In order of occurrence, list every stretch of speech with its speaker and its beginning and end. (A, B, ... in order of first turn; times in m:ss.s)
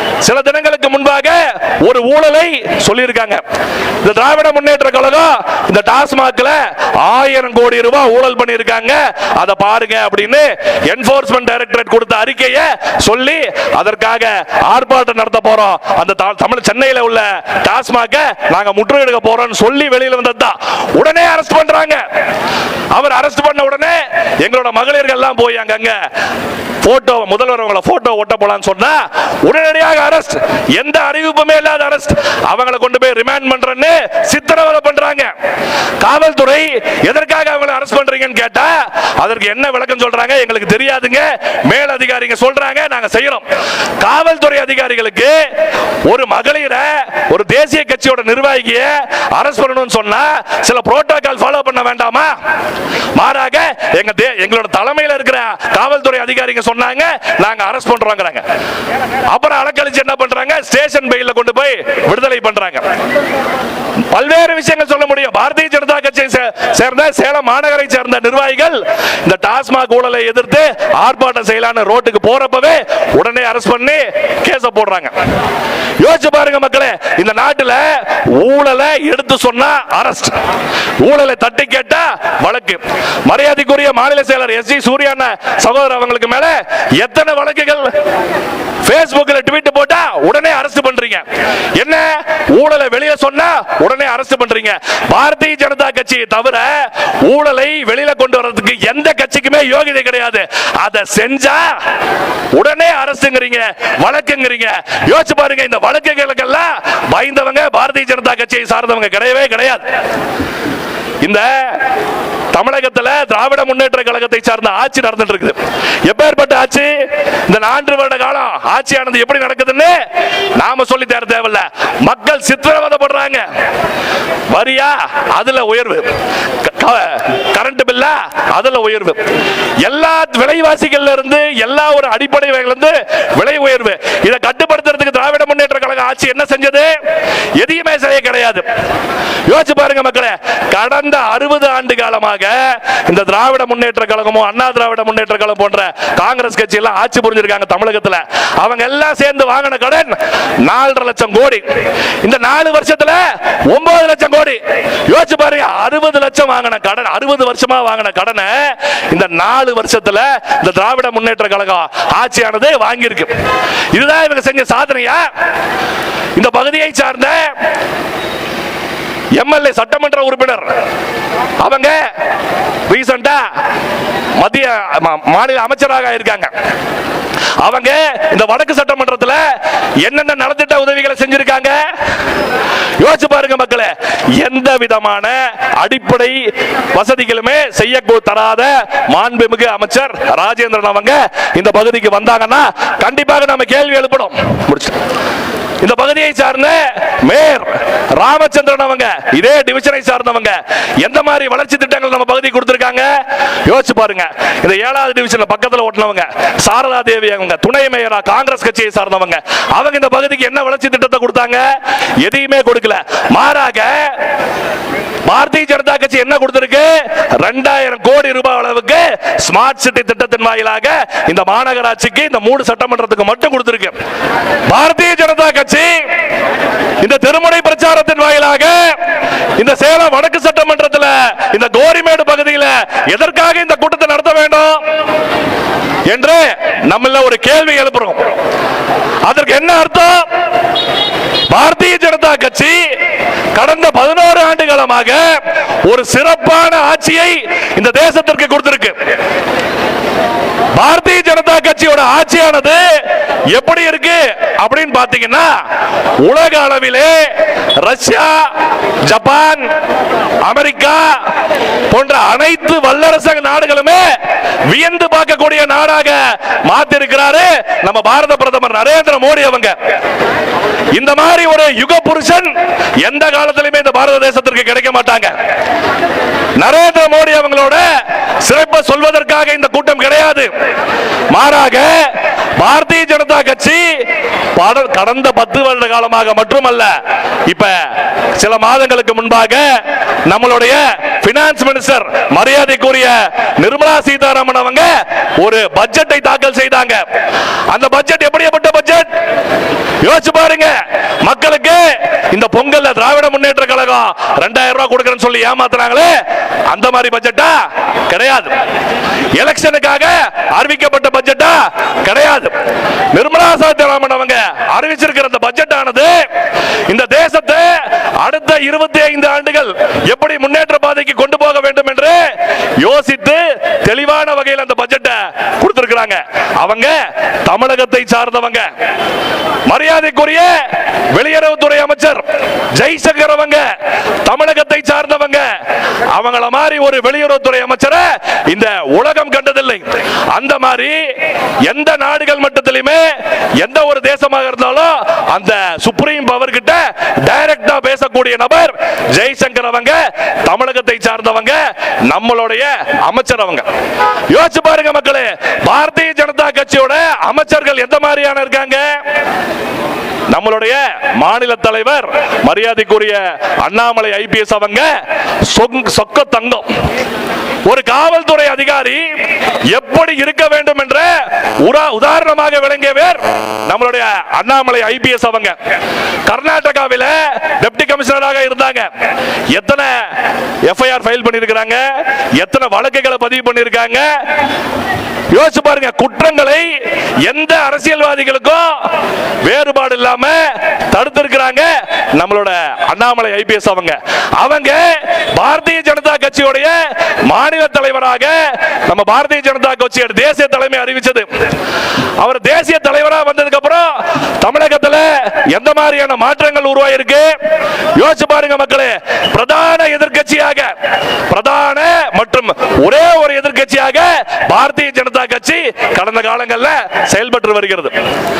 0:00.2-0:03.4 A
0:04.0-0:22.0 A
0:22.9-0:26.1 A
0:26.8-0:35.3 A
0:36.0-0:43.4 A
0:44.0-0:45.5 A
0:46.0-0:52.4 A
0:53.1-0:58.4 A
0:59.3-1:02.9 A
1:04.1-1:15.2 A
1:16.0-1:20.4 A
1:21.0-1:27.9 A
1:28.8-1:41.8 A
1:42.5-1:49.8 A
1:51.2-1:51.8 A
1:52.5-2:00.0 A
2:00.5-2:03.4 A
2:04.5-2:09.2 A
2:09.8-2:17.0 A
2:17.6-2:18.6 A
2:19.5-2:31.6 A
2:32.2-2:43.3 A
2:43.9-2:45.3 A
2:46.4-2:47.6 A
2:49.3-2:50.7 A
2:51.6-2:52.1 A
2:52.9-2:53.5 A
2:54.4-2:56.5 A
2:57.6-3:01.9 A
3:03.0-3:15.0 A
3:15.8-3:34.2 A
3:35.2-3:44.0 A
3:44.7-3:46.1 A
3:47.0-3:49.0 A
3:49.6-3:54.9 A
3:56.0-3:58.3 A
3:59.2-4:00.3 A
4:01.5-4:03.0 A
4:03.5-4:09.0 A
4:10.7-4:15.6 A
4:16.2-4:17.3 A
4:17.8-4:18.5 A
4:19.0-4:19.7 A
4:20.4-4:21.3 A
4:21.9-4:24.1 A
4:24.6-4:29.8 A
4:30.9-4:32.5 A
4:33.0-4:35.3 A
4:36.6-4:40.5 A
4:41.3-4:57.0 A
4:57.7-4:59.1 A
5:00.0-5:08.6 A
5:09.3-5:12.5 A
5:13.1-5:16.3 A
5:16.9-5:28.7 A
5:29.6-5:33.7 A
5:34.2-5:35.5 A
5:36.1-5:41.1 A
5:41.6-5:53.6 A
5:54.3-5:59.0 A
6:00.3-6:04.9 A
6:05.5-6:06.7 A
6:07.6-6:09.1 A
6:09.7-6:15.6 A
6:16.2-6:18.9 A
6:19.5-6:24.2 A
6:25.3-6:41.3 A
6:42.2-6:47.4 A
6:47.9-6:50.7 A
6:51.3-6:58.0 A